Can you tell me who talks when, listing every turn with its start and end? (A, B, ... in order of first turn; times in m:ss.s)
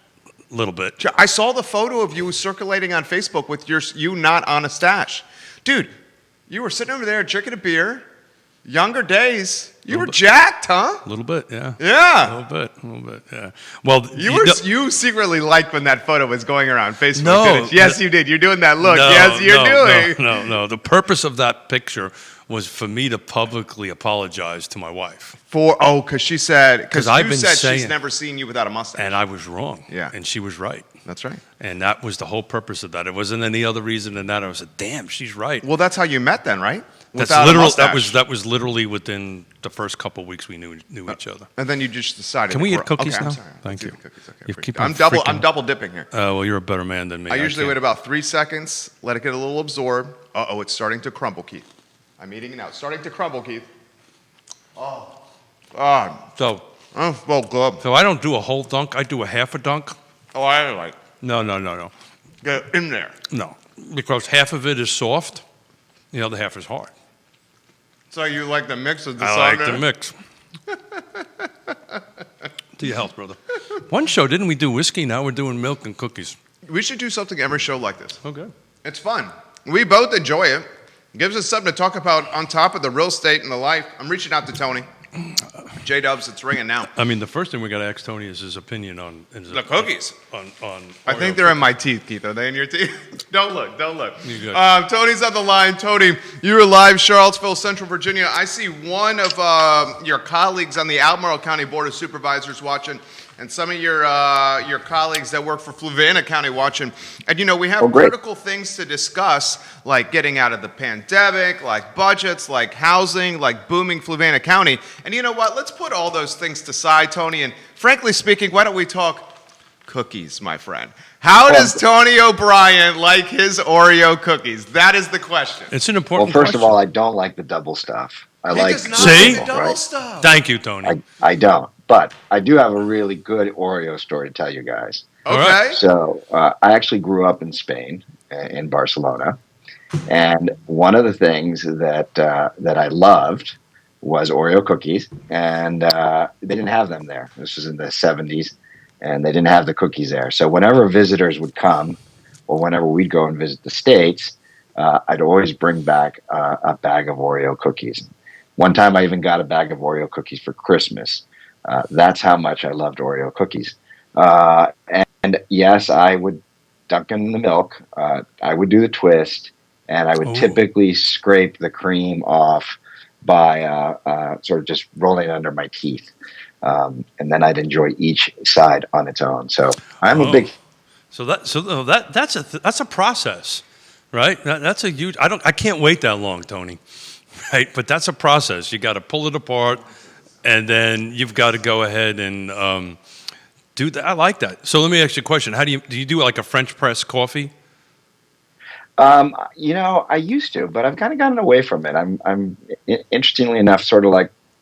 0:00.5-0:01.0 A
0:01.0-0:05.9 B
0:06.5-0:08.0 B
0:08.6-0:11.0 B
0:09.9-0:10.2 A
0:11.0-0:14.6 A
0:11.8-0:12.4 B
0:14.1-0:20.3 B
0:17.2-0:18.0 A
0:18.8-0:25.3 A
0:25.4-0:29.2 B
0:26.9-0:27.9 A
0:29.0-0:30.8 A
0:31.0-0:31.4 B
0:31.6-0:35.7 A
0:35.6-0:38.2 B
0:37.2-0:41.5 A
0:41.1-0:46.1 B
0:42.5-0:44.0 A
0:44.5-0:45.5 A
0:46.1-0:47.8 A
0:47.3-0:51.6 B
0:52.2-0:53.7 B
0:54.8-0:55.1 B
0:55.7-0:56.3 B
0:56.4-0:56.7 A
0:56.9-0:57.8 B
0:57.8-0:59.9 A
1:00.3-1:01.0 B
1:01.2-1:01.9 A
1:02.4-1:03.2 B
1:03.3-1:05.4 A
1:06.1-1:06.9 A
1:08.1-1:09.8 B
1:09.2-1:10.1 A
1:10.7-1:12.0 B
1:12.8-1:16.4 A
1:16.6-1:18.2 B
1:18.2-1:18.5 A
1:18.8-1:24.8 B
1:25.8-1:26.9 B
1:26.9-1:31.6 A
1:29.5-1:30.1 B
1:31.0-1:59.3 B
1:34.2-1:34.6 A
1:47.8-1:48.1 C
1:59.8-2:05.7 B
2:01.5-2:01.8 C
2:05.7-2:06.8 A
2:06.2-2:09.8 C
2:08.5-2:10.3 B
2:08.9-2:09.4 A
2:10.2-2:11.0 A
2:10.8-2:15.1 C
2:15.2-2:15.8 B
2:15.3-2:15.6 A
2:15.6-2:19.4 C
2:20.1-2:56.1 C
2:50.2-2:50.6 A
2:56.6-3:00.5 C
3:00.0-3:00.5 A
3:01.1-3:06.8 A
3:07.5-3:09.8 A
3:10.4-3:13.0 A
3:13.8-3:17.5 A
3:19.0-3:24.3 C